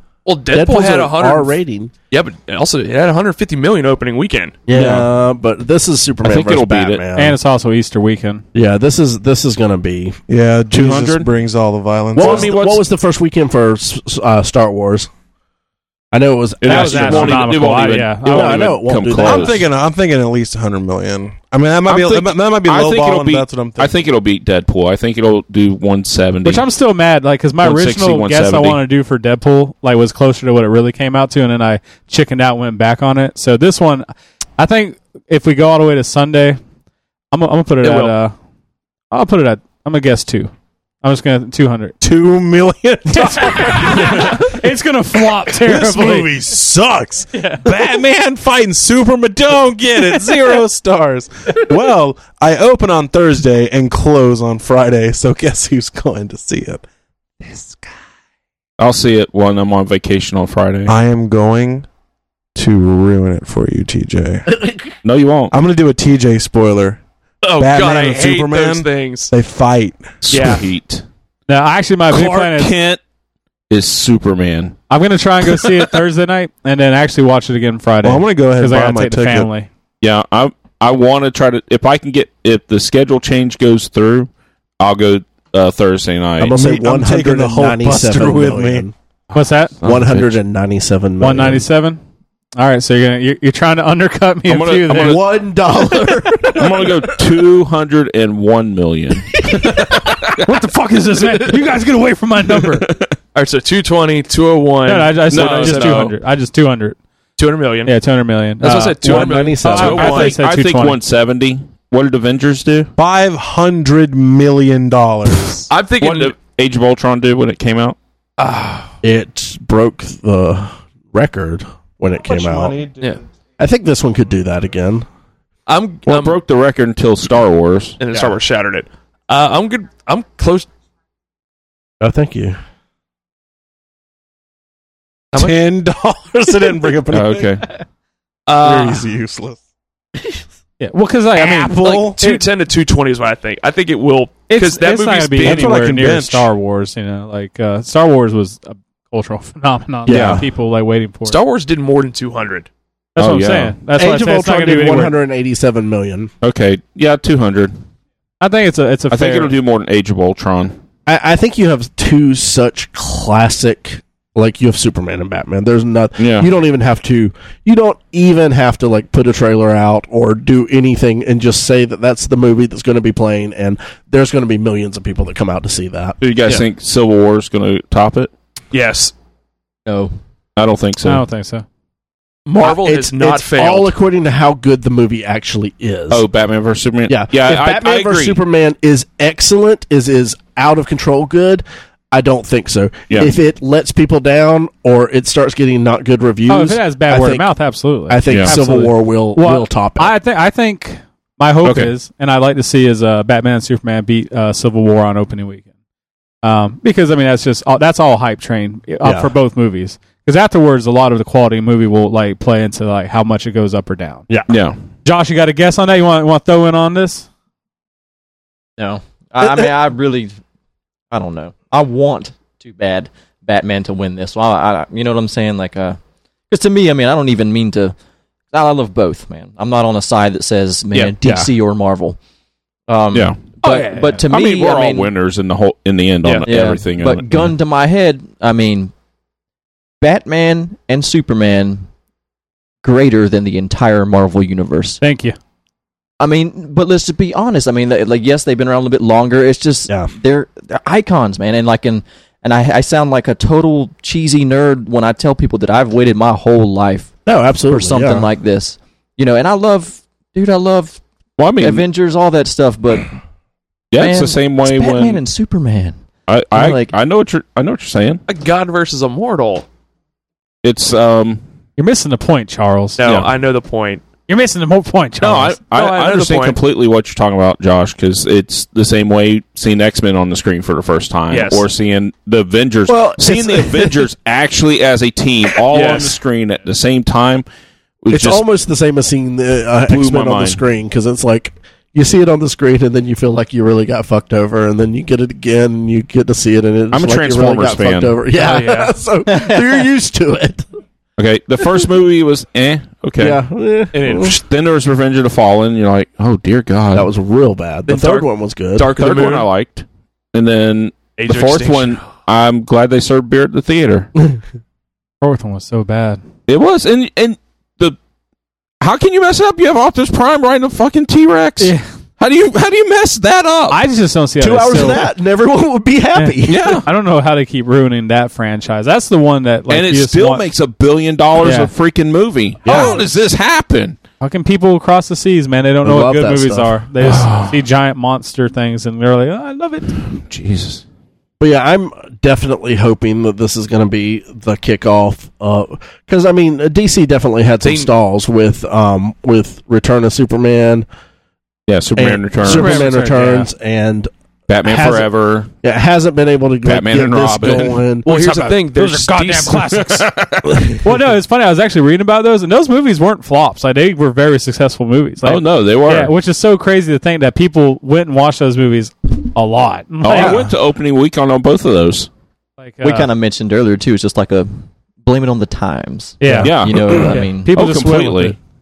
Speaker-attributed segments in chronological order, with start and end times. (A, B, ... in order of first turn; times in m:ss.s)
0:00.2-0:01.6 A
0:00.5-0:01.9 B
0:02.1-0:04.6 A
0:04.7-0:07.4 B
0:04.7-0:05.1 C
0:06.2-0:07.0 C
0:07.1-0:08.4 D
0:08.5-0:10.2 B
0:10.3-0:12.5 E
0:10.7-0:11.3 C
0:12.1-0:15.1 B
0:12.2-0:12.8 C
0:16.1-0:17.5 B
0:16.6-0:19.6 C
0:16.6-0:18.7 D
0:18.3-0:19.6 B
0:19.2-0:23.9 E
0:21.9-0:26.6 C
0:26.4-0:34.1 D
0:27.6-0:28.8 C
0:34.6-0:36.6 D
0:37.3-0:38.3 D
0:37.8-0:38.1 A
0:39.1-0:40.5 D
0:41.0-0:41.9 D
0:42.0-0:44.5 E
0:43.1-0:46.3 D
0:45.5-0:56.8 E
0:47.3-0:47.7 D
0:50.1-0:50.6 D
0:57.4-0:57.9 E
0:58.8-1:00.9 C
1:00.8-1:01.8 E
1:02.5-1:04.5 E
1:04.5-1:04.8 B
1:05.0-1:05.5 C
1:05.5-1:07.0 E
1:07.4-1:09.3 A
1:07.6-1:10.5 E
1:10.3-1:10.6 A
1:10.3-1:11.0 C
1:11.5-1:12.7 D
1:12.1-1:13.0 C
1:13.7-1:14.8 C
1:14.9-1:19.7 D
1:18.0-1:19.5 E
1:20.0-1:26.5 C
1:26.4-1:28.9 B
1:26.5-1:28.8 E
1:29.3-1:29.7 D
1:29.8-1:30.4 C
1:29.8-1:31.6 B
1:31.2-1:32.0 D
1:32.6-1:35.2 D
1:34.5-1:35.3 C
1:34.9-1:37.2 B
1:36.5-1:40.4 C
1:39.5-1:39.9 B
1:40.4-1:42.9 D
1:42.8-1:43.1 C
1:43.3-1:46.1 A
1:44.8-1:47.0 D
1:45.3-1:46.1 C
1:47.4-1:47.9 A
1:47.8-1:51.0 D
1:48.6-1:50.4 A
1:49.0-1:50.0 B
1:49.7-1:52.9 C
1:53.0-1:55.7 E
1:55.7-1:56.3 A
1:56.0-1:58.0 C
1:58.4-1:58.9 A
1:59.0-2:02.8 B
2:02.2-2:03.2 E
2:03.6-2:05.0 B
2:05.7-2:06.4 A
2:06.0-2:08.0 C
2:08.0-2:10.7 A
2:12.0-2:12.6 B
2:15.3-2:15.6 A
2:15.3-2:17.5 E
2:17.1-2:17.6 C
2:18.5-2:19.1 A
2:18.6-2:19.6 E
2:20.8-2:22.4 D
2:21.3-2:22.2 E
2:21.8-2:25.7 A
2:24.5-2:31.4 D
2:25.4-2:26.5 E
2:30.0-2:30.4 B
2:30.1-2:30.4 C
2:31.2-2:32.7 A
2:33.1-2:35.1 D
2:33.2-2:33.7 C
2:33.9-2:36.3 B
2:36.4-2:37.7 C
2:38.4-2:39.5 D
2:39.1-2:40.8 C
2:41.0-2:56.2 B
2:46.2-2:46.5 C
2:56.2-2:58.3 C
2:58.7-2:59.1 A
3:00.6-3:01.2 C
3:01.0-3:01.6 D
3:02.5-3:03.9 A
3:02.5-3:06.2 B
3:06.1-3:08.4 C
3:07.1-3:17.4 B
3:16.5-3:25.6 D
3:18.1-3:20.1 B
3:18.3-3:18.5 C
3:21.6-3:21.9 C
3:26.4-3:34.2 D
3:29.0-3:29.3 B
3:34.5-3:34.8 C
3:35.0-3:37.3 D
3:38.8-3:40.3 F
3:39.4-3:39.7 B
3:41.1-3:46.0 F
3:46.5-3:47.9 F
3:48.5-3:52.2 F
3:52.9-3:55.1 F
3:53.1-3:53.4 C
3:53.6-3:54.2 D
3:54.3-3:57.5 C
3:56.4-3:58.9 F
4:00.0-4:01.9 F
4:02.8-4:05.0 F
4:05.0-4:05.4 D
4:06.2-4:17.1 F
4:09.9-4:10.1 B
4:17.2-4:18.3 B
4:17.7-4:21.0 F
4:21.4-4:21.8 C
4:21.6-4:23.1 F
4:23.9-4:25.2 C
4:23.9-4:26.0 F
4:26.3-4:28.2 C
4:26.5-4:26.9 F
4:28.3-4:29.6 A
4:30.6-4:31.4 C
4:31.8-4:33.0 D
4:33.0-4:34.0 A
4:33.0-4:33.3 C
4:34.3-4:35.6 D
4:35.2-4:47.4 C
4:35.7-4:36.6 A
4:41.3-4:41.7 A
4:42.9-4:44.0 B
4:45.7-4:46.2 A
4:48.0-4:48.4 C
4:48.1-5:00.6 B
4:49.9-4:50.6 C
4:56.9-4:58.2 C
4:58.5-4:58.9 A
5:01.2-5:03.4 C
5:03.2-5:04.3 B
5:03.9-5:04.4 A
5:04.2-5:07.1 C
5:06.9-5:08.9 B
5:07.9-5:09.5 A
5:08.9-5:14.1 C
5:11.2-5:12.0 A
5:15.2-5:16.2 D
5:16.5-5:18.0 C
5:18.8-5:23.8 C
5:23.7-5:25.0 D
5:24.4-5:26.8 B
5:26.1-5:30.4 D
5:26.5-5:26.8 C
5:29.7-5:34.0 C
5:31.4-5:31.7 D
5:32.6-5:33.0 B
5:34.2-5:40.0 D
5:35.8-5:36.7 B
5:37.0-5:37.6 C
5:40.2-5:40.8 C
5:41.4-5:50.8 B
5:47.6-5:47.9 A
5:51.7-5:52.9 C
5:52.0-5:54.1 B
5:52.4-5:53.5 D
5:54.5-5:55.5 C
5:54.7-5:55.0 B
5:55.6-5:58.1 B
5:56.6-5:57.8 C
5:58.0-5:59.8 A
5:58.0-6:00.1 D
5:59.8-6:00.8 C
6:00.8-6:10.4 D
6:05.2-6:06.1 C
6:10.0-6:12.1 C
6:10.1-6:10.5 B
6:12.6-6:13.1 D
6:12.8-6:14.5 F
6:15.0-6:17.5 F
6:16.2-6:18.4 D
6:16.2-6:17.0 B
6:16.4-6:18.4 C